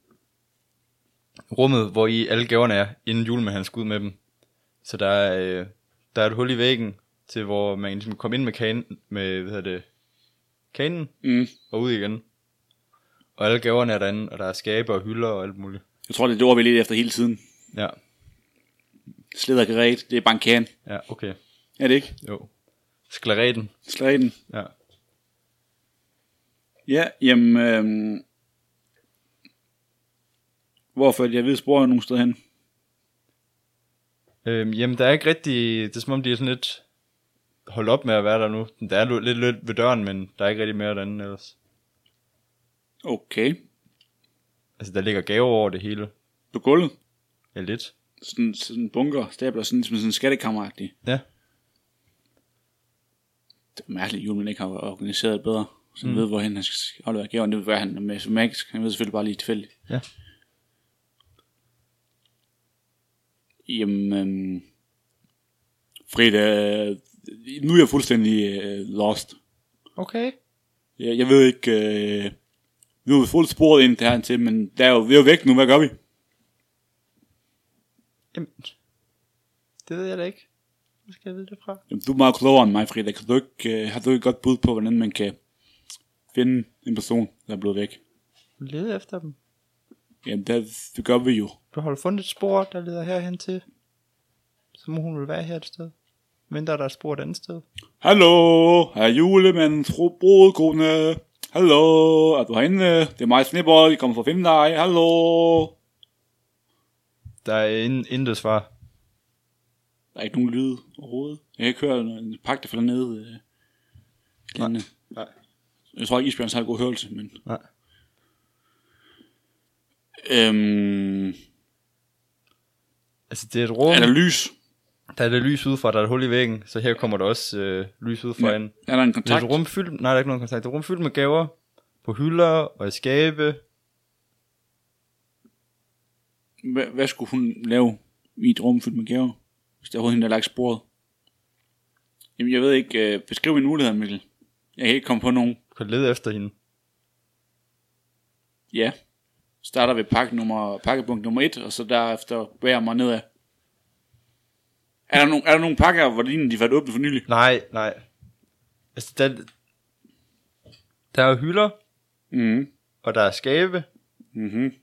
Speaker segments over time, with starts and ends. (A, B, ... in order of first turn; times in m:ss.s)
0:01.5-0:04.2 A
0:04.8-0:09.9 A
0:10.7-0:12.2 A
0:11.2-0:11.5 B
0:13.4-0:15.8 A
0:16.1-0:17.4 B
0:19.3-0:20.7 B
0:20.9-0:21.4 A
0:21.8-0:22.1 B
0:22.2-0:22.5 A
0:23.1-0:23.7 A
0:23.9-0:24.4 B
0:26.9-0:28.2 B
0:31.0-0:32.4 B
0:34.4-0:36.8 A
0:37.7-0:41.5 A
0:43.0-0:43.6 B
0:44.8-0:46.1 A
0:46.5-0:46.9 B
0:47.5-0:47.9 A
0:48.2-0:50.9 B
0:53.8-0:59.7 B
1:03.6-1:04.6 B
1:06.1-1:09.4 B
1:10.0-1:10.4 C
1:11.0-1:12.4 B
1:13.0-1:15.9 B
1:19.9-1:20.4 C
1:21.1-1:21.8 C
1:21.9-1:25.4 B
1:26.3-1:28.0 B
1:28.6-1:29.4 C
1:30.2-1:31.6 B
1:31.7-1:33.6 C
1:34.8-1:35.9 C
1:36.5-1:37.6 C
1:38.0-1:45.8 B
1:47.4-1:48.7 A
1:50.1-1:53.4 B
1:54.5-1:54.9 B
1:54.6-1:55.3 A
1:56.0-1:57.4 B
2:00.2-2:01.4 B
2:03.3-2:04.1 A
2:03.9-2:04.5 B
2:05.1-2:08.7 A
2:08.4-2:09.6 B
2:09.2-2:13.6 A
2:16.6-2:20.8 B
2:22.4-2:24.2 B
2:24.8-2:25.6 B
2:25.7-2:26.5 A
2:29.6-2:33.2 B
2:35.1-2:37.2 B
2:37.3-2:38.0 A
2:39.0-2:39.5 A
2:41.1-2:41.8 A
2:42.3-2:42.7 B
2:43.0-2:43.9 A
2:44.4-2:44.7 B